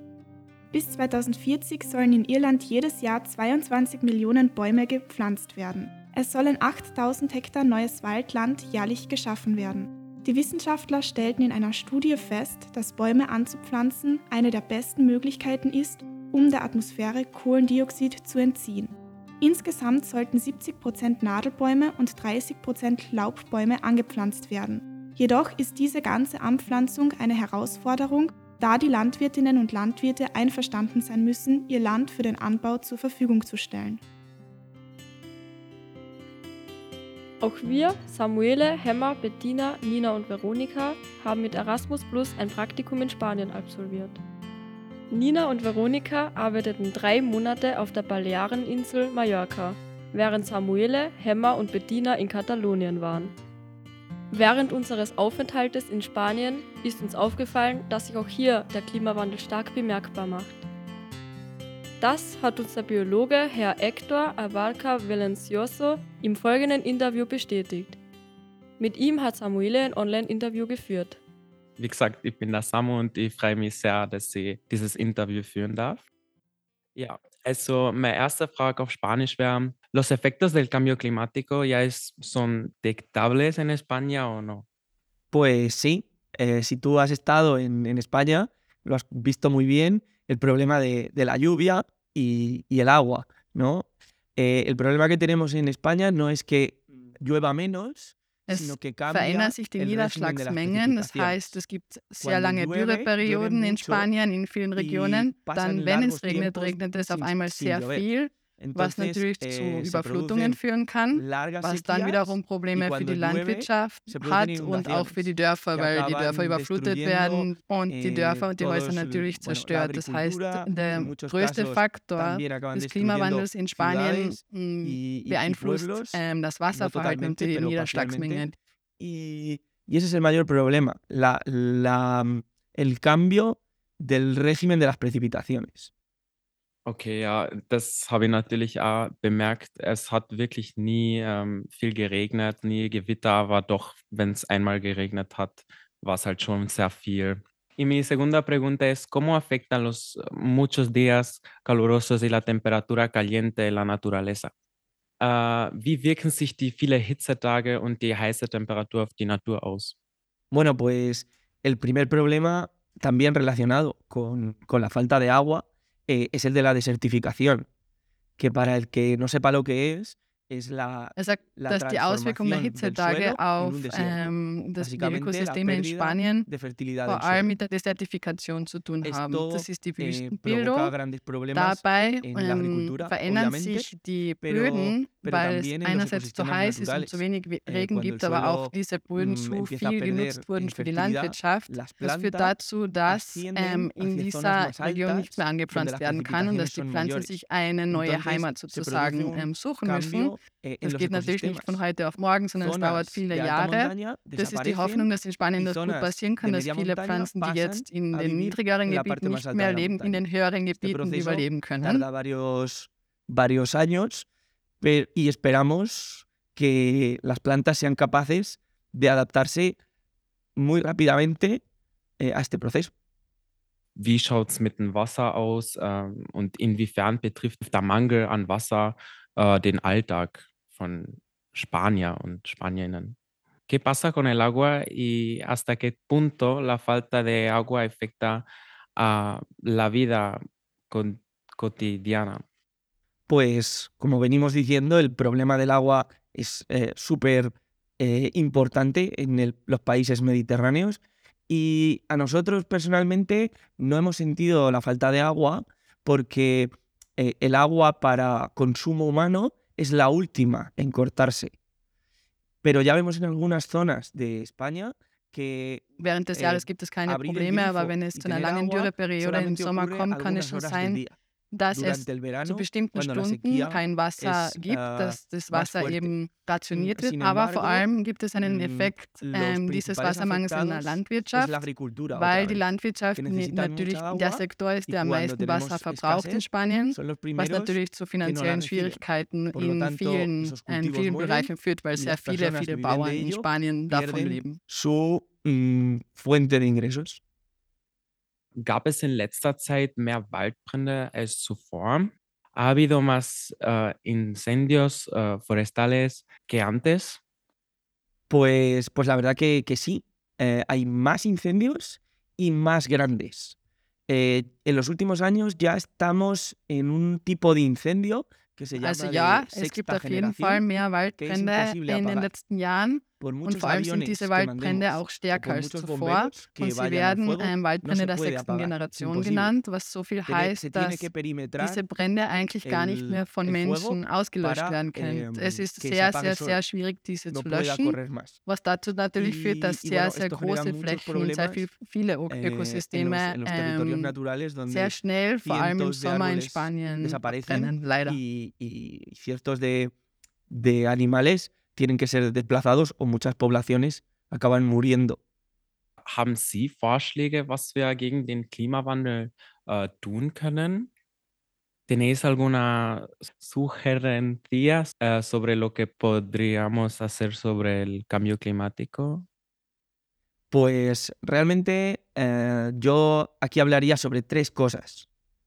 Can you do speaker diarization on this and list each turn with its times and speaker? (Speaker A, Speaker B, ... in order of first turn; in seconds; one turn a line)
Speaker A: 0.7-34.0
Speaker B: 37.4-44.2
Speaker B: 45.1-53.3
Speaker B: 54.3-60.6
Speaker B: 62.0-68.0
Speaker B: 68.8-71.2
Speaker C: 71.8-76.0
Speaker C: 77.0-84.7
Speaker D: 85.3-101.5
Speaker E: 98.5-128.5
Speaker D: 102.2-104.1
Speaker D: 104.8-110.6
Speaker D: 111.1-126.2
Speaker D: 126.7-135.9
Speaker C: 136.8-154.5
Speaker C: 155.2-159.9
Speaker D: 160.5-167.7
Speaker D: 168.4-177.5
Speaker E: 171.2-176.5
Speaker E: 177.0-180.9
Speaker D: 179.0-183.9
Speaker E: 181.5-212.0
Speaker D: 184.4-197.3
Speaker D: 197.9-201.8
Speaker D: 202.6-210.2
Speaker D: 210.8-214.2
Speaker D: 214.8-219.8
Speaker D: 220.6-221.6
Speaker D: 222.2-222.9
Speaker C: 223.9-233.2
Speaker C: 233.7-242.4
Speaker D: 243.3-261.5
Speaker D: 262.6-271.1
Speaker E: 266.0-294.6
Speaker D: 271.7-276.1
Speaker D: 276.7-277.9
Speaker D: 278.4-282.6
Speaker D: 283.1-289.0
Speaker D: 289.5-297.2
Speaker C: 298.6-307.2
Speaker D: 308.3-313.5
Speaker D: 314.1-322.3
Speaker E: 318.8-331.1
Speaker D: 323.2-329.5
Speaker D: 330.3-331.8
Speaker E: 331.6-344.1
Speaker D: 332.6-336.6
Speaker D: 337.3-338.4
Speaker D: 339.2-341.7
Speaker D: 342.3-349.9
Speaker E: 344.6-348.2
Speaker D: 350.5-355.2
Speaker C: 356.0-360.9
Speaker C: 361.9-369.2
Speaker D: 370.5-375.1